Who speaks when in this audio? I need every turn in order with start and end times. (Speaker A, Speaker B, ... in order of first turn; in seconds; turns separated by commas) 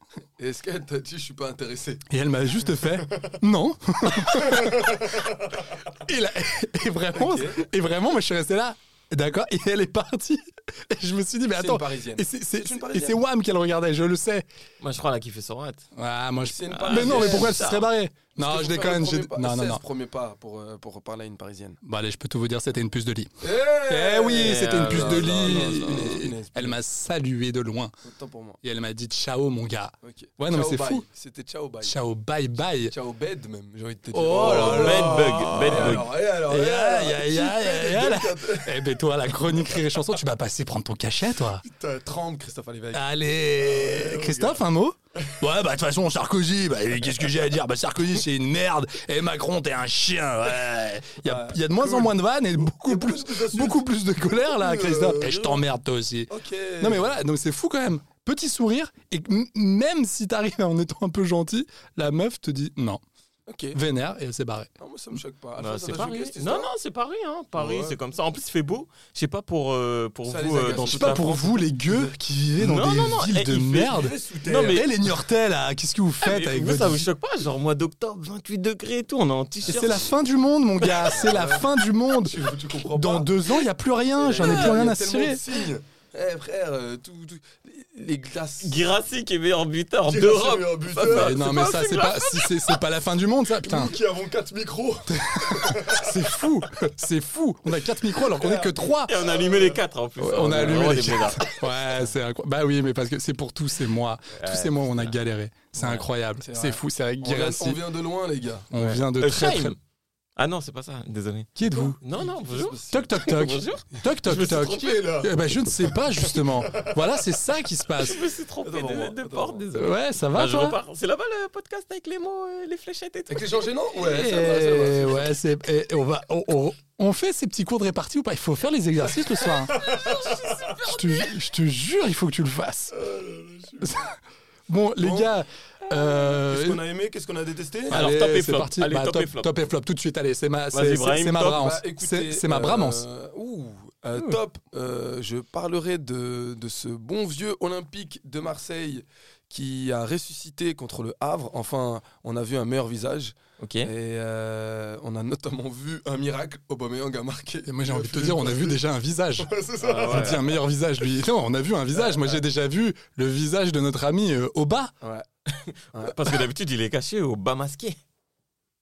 Speaker A: 0.4-2.0, Speaker B: 2.1-5.1, Speaker A: 2.8-3.3, Speaker A: 4.2-5.5, Speaker B: 6.0-14.4, Speaker A: 7.1-7.6, Speaker A: 11.5-13.2, Speaker C: 14.8-15.9, Speaker B: 15.9-19.8, Speaker A: 16.4-17.6, Speaker C: 16.7-17.9, Speaker A: 18.4-21.8, Speaker B: 21.8-27.9, Speaker A: 23.4-26.8, Speaker C: 24.3-26.2, Speaker A: 28.0-28.6, Speaker B: 28.6-31.0, Speaker A: 30.0-31.9, Speaker B: 31.8-32.9, Speaker A: 32.9-38.9, Speaker B: 34.1-41.6, Speaker C: 34.3-36.1, Speaker A: 39.4-40.0, Speaker A: 41.6-43.0, Speaker B: 42.9-63.0, Speaker A: 43.6-44.6, Speaker A: 51.2-53.9, Speaker A: 54.4-55.5, Speaker A: 56.3-57.1, Speaker A: 63.5-63.8, Speaker B: 63.7-64.7, Speaker A: 64.8-66.7, Speaker C: 65.6-71.5, Speaker A: 67.5-68.0, Speaker A: 70.2-72.1, Speaker B: 70.9-77.1, Speaker C: 72.6-73.9, Speaker A: 73.7-74.8, Speaker C: 74.4-74.9, Speaker C: 76.2-80.1, Speaker B: 79.6-85.4, Speaker C: 80.8-81.2, Speaker A: 81.1-81.6, Speaker A: 82.2-83.3, Speaker A: 84.2-88.8, Speaker C: 84.2-84.8, Speaker C: 88.6-92.8, Speaker A: 90.0-91.4, Speaker B: 91.1-94.0, Speaker A: 93.5-96.2, Speaker B: 95.1-99.3, Speaker A: 98.2-99.8, Speaker C: 99.1-102.1, Speaker B: 100.2-107.8, Speaker A: 100.3-101.4, Speaker C: 104.3-105.2, Speaker C: 105.8-106.0, Speaker A: 105.8-108.7, Speaker B: 108.7-109.7, Speaker C: 108.7-109.8, Speaker C: 110.4-115.3, Speaker B: 111.5-112.0, Speaker A: 111.6-113.4, Speaker B: 112.9-118.2, Speaker A: 114.1-115.2, Speaker A: 116.2-116.9, Speaker C: 118.0-123.7, Speaker A: 118.6-119.6, Speaker B: 119.7-120.8, Speaker A: 123.3-125.3, Speaker B: 123.9-129.8, Speaker C: 129.7-131.4, Speaker A: 129.7-130.5, Speaker B: 130.8-132.9, Speaker A: 132.9-134.0, Speaker B: 133.8-134.2, Speaker B: 134.7-136.8, Speaker A: 135.0-135.3, Speaker A: 136.1-138.0, Speaker B: 137.9-143.0, Speaker C: 137.9-139.5, Speaker C: 140.7-141.7, Speaker A: 141.5-158.8, Speaker C: 153.6-153.9, Speaker B: 157.6-164.9, Speaker A: 159.4-160.6, Speaker C: 159.8-160.4, Speaker A: 161.9-162.4, Speaker A: 165.0-165.3, Speaker A: 165.9-166.2, Speaker C: 166.0-168.0